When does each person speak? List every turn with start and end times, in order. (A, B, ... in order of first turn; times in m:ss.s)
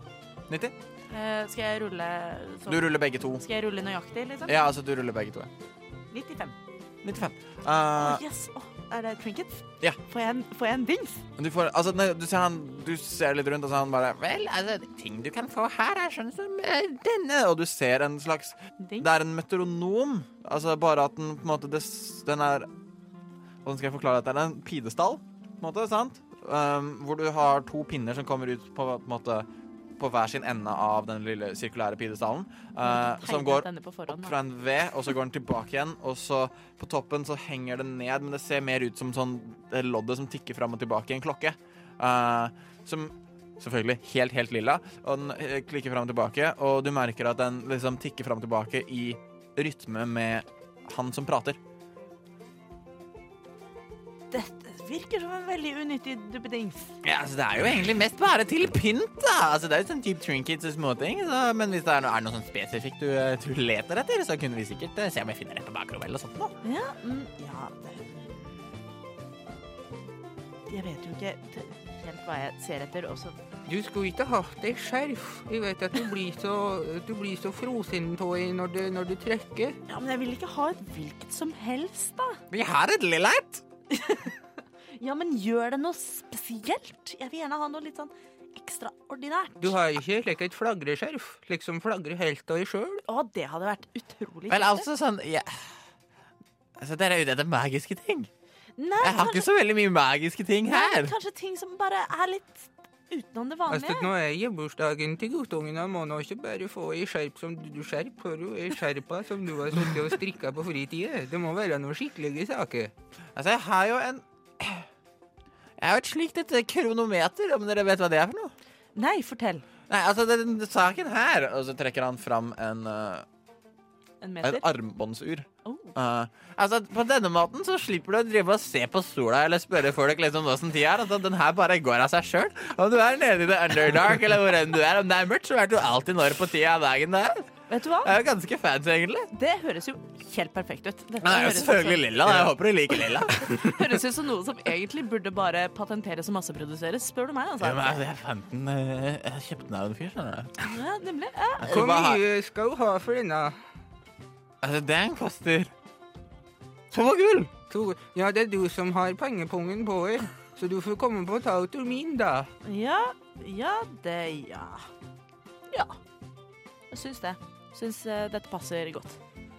0:00.5-0:00.8 A
0:01.1-0:04.6 B
0:02.7-0:03.4 A
0:04.5-0:05.5 A
0:06.1-0:06.6 B
0:07.0-0:08.2 A
0:08.0-0:11.2 B
0:11.4-0:22.7 A
0:18.8-0:19.1 B
0:23.6-0:29.5 A
0:30.0-0:51.6 A
0:32.8-0:34.4 B
0:54.3-0:57.0 B
0:57.0-1:06.6 A
1:06.6-1:08.7 B
1:10.7-1:13.4 B
1:13.7-1:19.8 C
1:19.9-1:22.4 B
1:22.5-1:23.6 A
1:23.9-1:24.4 B
1:25.0-1:30.0 B
1:29.6-1:33.0 C
1:33.1-1:34.9 B
1:34.5-1:35.7 A
1:36.8-1:38.3 A
1:38.8-1:39.5 B
1:39.0-1:41.1 A
1:40.7-1:44.1 B
1:43.7-1:52.9 C
1:53.4-1:54.9 A
1:55.8-1:58.5 A
1:59.0-1:59.6 B
1:59.9-2:03.3 A
2:04.2-2:04.7 B
2:04.4-2:19.3 A
2:05.6-2:05.9 B
2:17.7-2:18.2 B
2:19.3-2:28.0 B
2:21.2-2:23.8 A
2:27.6-2:30.6 A
2:30.6-2:31.9 B
2:31.6-2:32.2 A
2:31.7-2:33.6 C
2:34.6-2:35.7 A
2:36.9-2:37.5 A
2:37.7-2:42.5 C
2:42.6-2:44.9 B
2:45.7-2:46.0 B
2:46.9-2:49.2 B